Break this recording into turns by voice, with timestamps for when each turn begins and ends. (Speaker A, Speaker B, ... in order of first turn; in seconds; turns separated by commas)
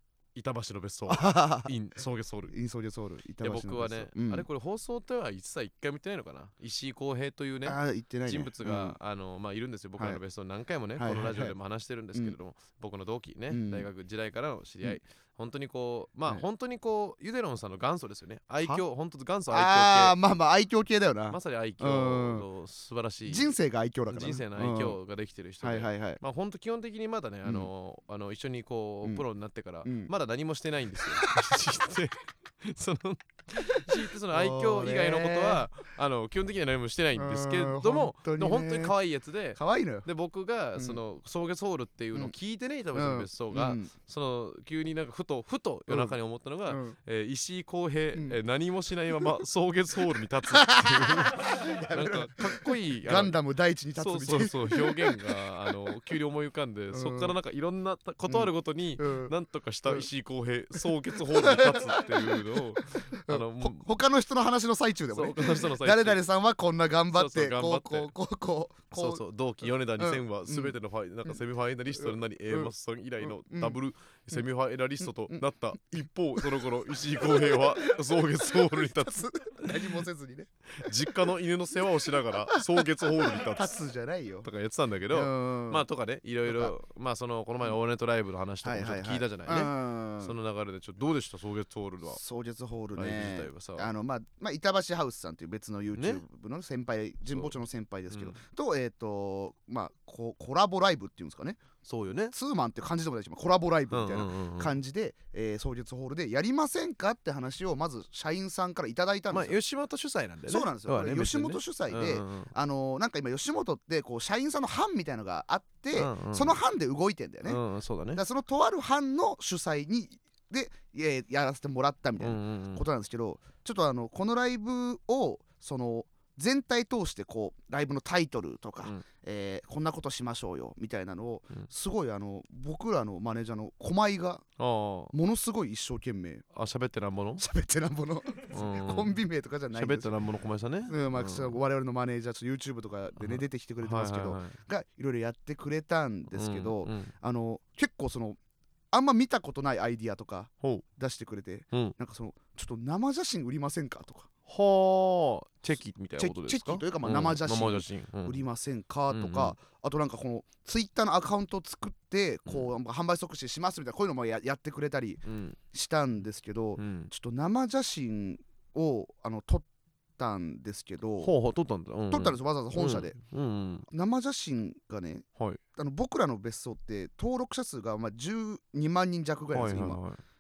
Speaker A: 0.3-2.5, Speaker B: 1.1-1.7, Speaker B: 2.5-4.5, Speaker A: 3.4-20.2, Speaker B: 7.7-9.0, Speaker B: 11.0-11.6, Speaker B: 13.5-13.9, Speaker B: 19.5-22.5, Speaker A: 21.3-23.5, Speaker B: 23.3-25.0, Speaker A: 24.1-53.4, Speaker B: 25.6-26.2, Speaker B: 29.9-30.1, Speaker B: 31.0-31.6, Speaker B: 33.9-35.7, Speaker B: 37.1-39.0, Speaker B: 39.6-40.1, Speaker B: 42.9-43.9, Speaker B: 45.9-46.1, Speaker B: 46.7-47.0, Speaker B: 50.5-55.4, Speaker A: 54.0-63.9, Speaker B: 56.9-57.4, Speaker B: 58.3-59.3, Speaker B: 60.8-69.2, Speaker A: 65.1-66.2, Speaker A: 67.1-68.1, Speaker A: 68.9-79.9, Speaker B: 70.0-70.8, Speaker B: 72.0-73.8, Speaker B: 75.0-75.4, Speaker B: 76.0-81.2, Speaker A: 80.7-83.8, Speaker B: 82.5-84.5, Speaker A: 84.4-92.2, Speaker B: 85.1-85.8, Speaker B: 86.5-86.7, Speaker B: 88.6-90.3, Speaker B: 92.1-101.6, Speaker A: 93.0-93.9, Speaker A: 96.0-96.2, Speaker A: 98.1-98.4, Speaker A: 101.8-102.3, Speaker B: 102.3-109.6, Speaker A: 103.9-104.8, Speaker A: 109.3-112.5, Speaker B: 110.5-117.6, Speaker A: 116.0-116.6, Speaker A: 117.5-118.2, Speaker B: 118.2-134.4, Speaker A: 122.2-122.8, Speaker A: 134.6-135.1, Speaker B: 135.1-136.4, Speaker A: 136.5-137.4, Speaker B: 137.4-140.1, Speaker A: 138.5-139.2, Speaker A: 139.7-141.6, Speaker B: 140.9-148.4, Speaker A: 143.2-144.6, Speaker A: 146.3-147.1, Speaker B: 148.9-154.3, Speaker A: 154.5-158.4, Speaker B: 156.2-169.7, Speaker A: 159.1-159.6, Speaker A: 165.3-165.6, Speaker A: 166.8-167.1, Speaker B: 170.2-171.3, Speaker A: 171.2-173.9, Speaker B: 172.1-173.2, Speaker B: 173.9-175.2, Speaker B: 175.8-180.0, Speaker A: 179.5-180.2